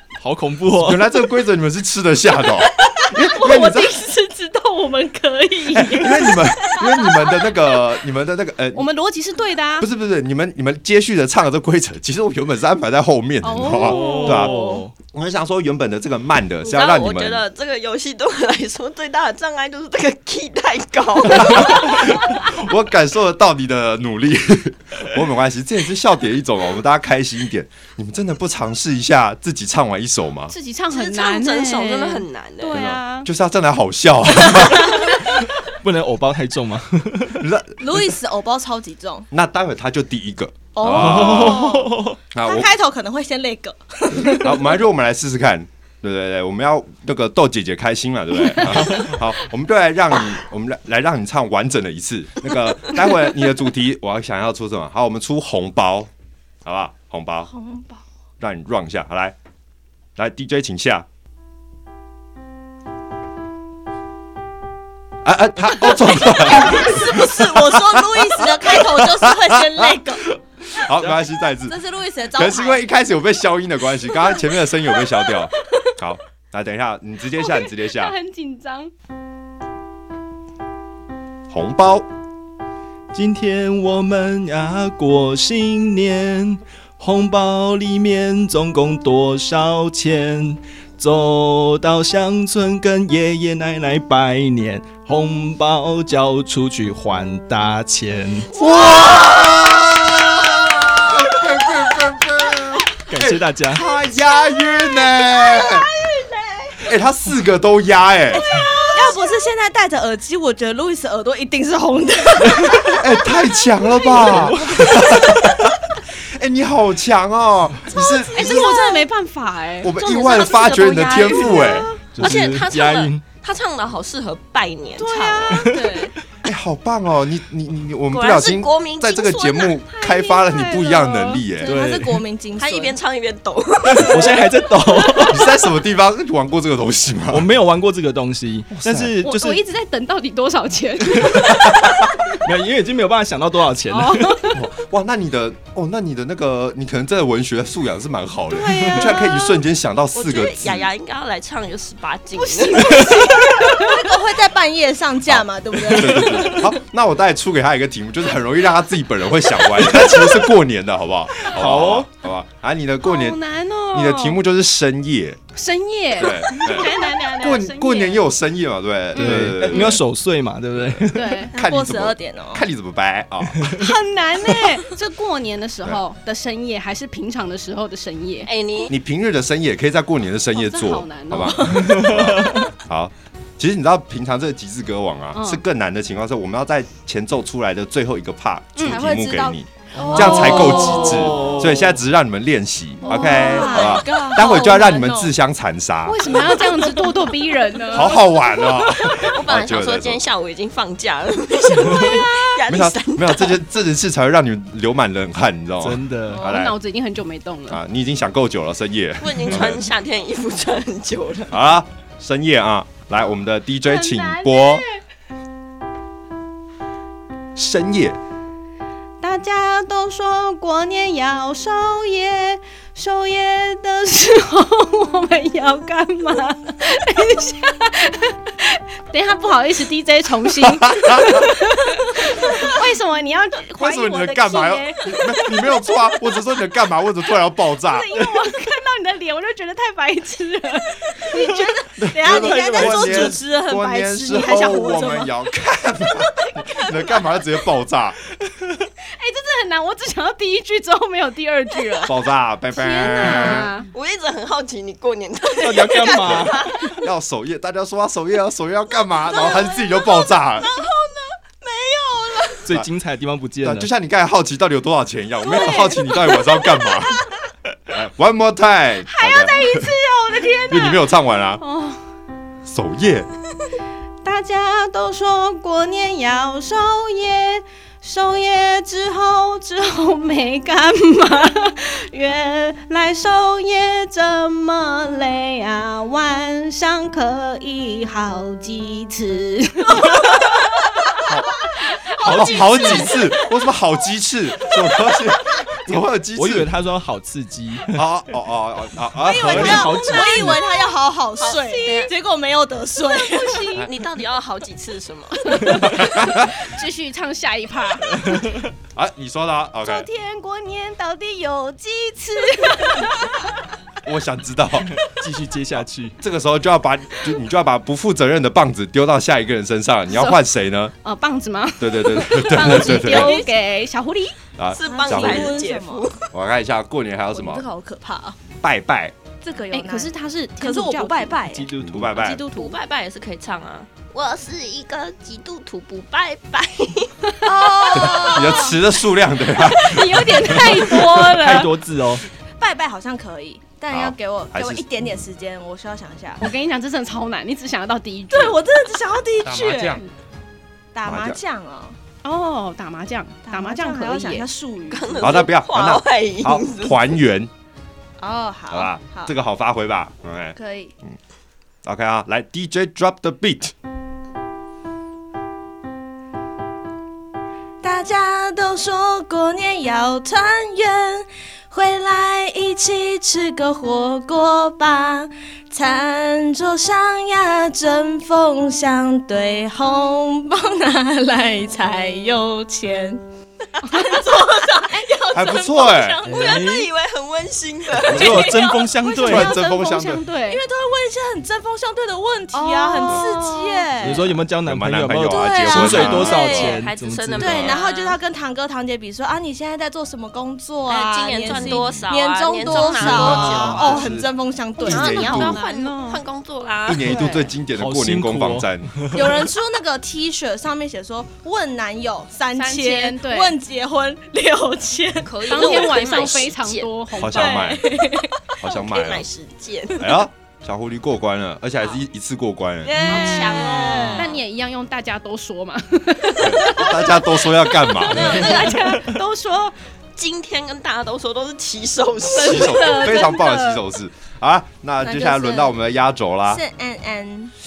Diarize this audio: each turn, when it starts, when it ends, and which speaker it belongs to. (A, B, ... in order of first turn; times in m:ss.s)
0:00.2-0:01.1 A
0:00.7-0:04.0 B
0:02.8-0:07.6 C
0:05.7-0:08.9 B
0:08.7-0:09.9 D
0:09.8-0:17.4 B
0:13.4-0:14.8 D
0:13.8-0:14.9 A
0:16.6-0:22.1 E
0:21.3-0:30.5 B
0:30.5-0:33.3 D
0:30.9-0:32.8 E
0:32.7-0:35.1 B
0:35.6-0:37.4 A
0:37.4-0:38.1 B
0:37.8-0:39.3 C
0:39.3-0:41.8 B
0:40.8-0:44.7 C
0:40.9-0:42.2 A
0:42.3-0:42.7 B
0:44.2-0:56.1 B
0:56.6-0:57.5 B
0:57.5-0:58.0 C
0:58.4-0:59.4 B
1:00.2-1:01.0 B
1:05.2-1:11.8 B
1:05.8-1:10.3 C
1:11.6-1:12.8 C
1:12.3-1:18.1 B
1:17.4-1:18.9 D
1:21.5-1:22.0 B
1:23.1-1:38.5 A
1:38.5-1:45.9 B
1:38.6-1:39.8 C
1:40.5-1:42.0 C
1:43.1-1:43.8 A
1:43.9-1:46.9 C
1:46.8-1:48.5 B
1:48.3-1:55.5 C
1:52.9-1:59.0 B
1:54.2-1:54.9 A
1:57.9-1:59.0 C
1:58.3-1:59.9 D
1:59.8-2:01.9 B
2:00.0-2:05.7 E
2:00.6-2:01.9 C
2:02.1-2:03.2 A
2:05.0-2:06.1 C
2:05.5-2:06.1 A
2:05.8-2:06.0 D
2:06.4-2:11.8 B
2:08.1-2:09.8 E
2:09.9-2:11.4 D
2:11.6-2:13.0 C
2:11.6-2:12.2 A
2:12.6-2:14.5 E
2:13.8-2:15.5 A
2:15.3-2:17.5 B
2:17.3-2:19.6 A
2:18.7-2:19.2 B
2:19.2-2:22.1 D
2:21.1-2:21.4 A
2:21.6-2:21.9 B
2:22.3-2:24.5 A
2:23.9-2:24.6 D
2:24.5-2:30.9 B
2:28.5-2:29.6 C
2:30.1-2:33.8 E
2:32.4-2:36.7 C
2:33.7-2:34.0 D
2:35.2-2:43.4 B
2:41.4-2:42.1 A
2:43.0-2:44.4 D
2:43.9-2:45.4 B
2:45.5-2:48.2 D
2:46.2-2:50.0 B
2:49.1-2:50.0 D
2:49.2-2:51.5 A
2:51.1-2:51.5 D
2:51.5-2:52.6 C
2:51.5-2:53.8 B
2:53.7-2:58.5 D
2:58.4-2:58.9 E
2:58.9-3:16.4 B
3:00.5-3:01.9 D
3:01.8-3:02.6 A
3:05.3-3:05.6 D
3:08.8-3:09.0 D
3:08.8-3:11.5 C
3:10.0-3:11.0 D
3:10.1-3:11.9 A
3:13.0-3:14.2 D
3:13.0-3:15.3 C
3:16.0-3:18.4 D
3:17.9-3:20.2 B
3:19.1-3:23.6 E
3:21.8-3:22.6 C
3:22.7-3:26.8 B
3:25.8-3:26.4 A
3:26.3-3:27.8 D
3:27.7-3:29.8 B
3:29.2-3:31.6 E
3:31.5-3:34.8 B
3:33.8-3:34.8 D
3:37.5-3:38.2 B
3:39.2-3:55.7 D
3:50.6-3:51.5 B
3:53.8-3:58.1 B
3:57.8-4:01.6 D
4:01.3-4:05.3 C
4:02.0-4:08.2 B
4:02.3-4:03.4 A
4:09.0-4:12.2 D
4:12.0-4:13.7 B
4:12.7-4:13.9 D
4:13.3-4:17.0 E
4:15.6-4:16.7 A
4:16.9-4:20.7 B
4:19.3-4:21.7 E
4:22.6-4:23.9 A
4:23.6-4:27.3 B
4:25.5-4:26.0 D
4:25.6-4:26.8 C
4:27.9-4:29.9 B
4:29.1-4:31.0 D
4:29.2-4:30.8 C
4:30.7-4:31.6 B
4:31.6-4:32.0 D
4:32.6-4:33.3 B
4:34.2-4:50.3 D
4:51.2-4:51.6 B
4:51.9-4:53.3 D
4:52.2-4:56.7 B
4:52.2-4:52.6 A
4:52.3-4:53.3 C
4:56.3-4:58.0 A
4:57.9-5:00.1 B
4:59.2-5:03.8 C
4:59.3-5:00.6 A
5:01.4-5:02.1 E
5:01.5-5:02.1 D
5:03.3-5:03.8 D
5:03.7-5:05.8 E
5:05.5-5:08.4 D
5:05.8-5:06.6 B
5:08.2-5:08.5 A
5:08.9-5:10.1 B
5:09.8-5:13.3 D
5:14.0-5:15.0 B
5:15.0-5:16.2 A
5:16.2-5:20.9 B
5:20.1-5:20.4 D
5:21.0-5:24.4 D
5:21.8-5:23.4 B
5:22.6-5:23.5 C
5:24.6-5:25.6 B
5:24.7-5:26.3 E
5:24.8-5:26.0 C
5:26.3-5:27.6 B
5:27.3-5:28.4 C
5:28.6-5:29.1 B
5:29.4-5:31.7 C
5:29.7-5:31.4 D
5:31.5-5:32.2 A
5:31.8-5:32.4 B
5:32.1-5:32.8 D
5:32.4-5:37.1 E
5:37.4-5:38.8 C
5:37.7-5:38.4 D
5:37.9-5:41.2 B
5:39.6-5:41.7 D
5:41.2-5:42.2 A
5:42.6-5:46.4 C
5:43.9-5:44.8 B
5:46.4-5:48.6 D
5:48.3-5:50.0 C
5:49.4-5:50.0 B
5:50.9-5:52.0 C
5:51.0-5:51.4 B
5:52.2-5:54.4 D
5:53.4-5:55.5 C
5:54.9-5:57.2 E
5:55.2-5:57.5 B
5:58.2-5:59.3 C
5:58.7-6:01.2 B
6:00.6-6:00.9 C
6:01.8-6:03.7 B
6:07.8-6:23.2 C
6:23.8-6:26.6 C
6:24.0-6:25.0 E
6:25.3-6:26.2 B
6:25.9-6:28.7 E
6:26.2-6:26.9 A
6:28.0-6:29.4 C
6:28.0-6:29.5 A
6:29.0-6:30.6 D
6:29.2-6:30.2 B
6:30.4-6:34.4 C
6:32.5-6:33.9 D
6:34.0-6:37.7 A
6:34.6-6:36.6 B
6:35.3-6:36.8 C
6:36.2-6:38.2 E
6:37.4-6:45.4 C
6:40.9-6:44.0 E
6:41.5-6:42.0 B
6:42.9-6:43.8 A
6:43.0-6:44.3 B
6:44.8-6:46.2 D
6:44.8-6:45.6 B
6:44.8-6:47.3 E
6:46.8-6:48.9 B
6:47.1-6:47.4 C
6:47.7-6:49.4 A
6:49.1-6:56.2 C
6:52.5-6:53.6 D
6:55.2-6:56.9 E
6:55.5-6:57.8 D
6:57.2-6:57.9 B
6:57.2-6:58.4 C
6:58.6-6:59.3 B
6:58.6-7:00.1 E
7:00.0-7:03.0 B
7:02.8-7:04.4 E
7:02.9-7:04.3 C
7:03.1-7:03.6 D
7:04.1-7:07.1 D
7:06.4-7:08.5 B
7:07.7-7:09.7 D
7:08.1-7:09.0 E
7:08.4-7:09.2 C
7:10.2-7:13.0 E
7:12.3-7:13.8 D
7:12.4-7:16.6 B
7:15.0-7:15.7 C
7:16.5-7:17.5 C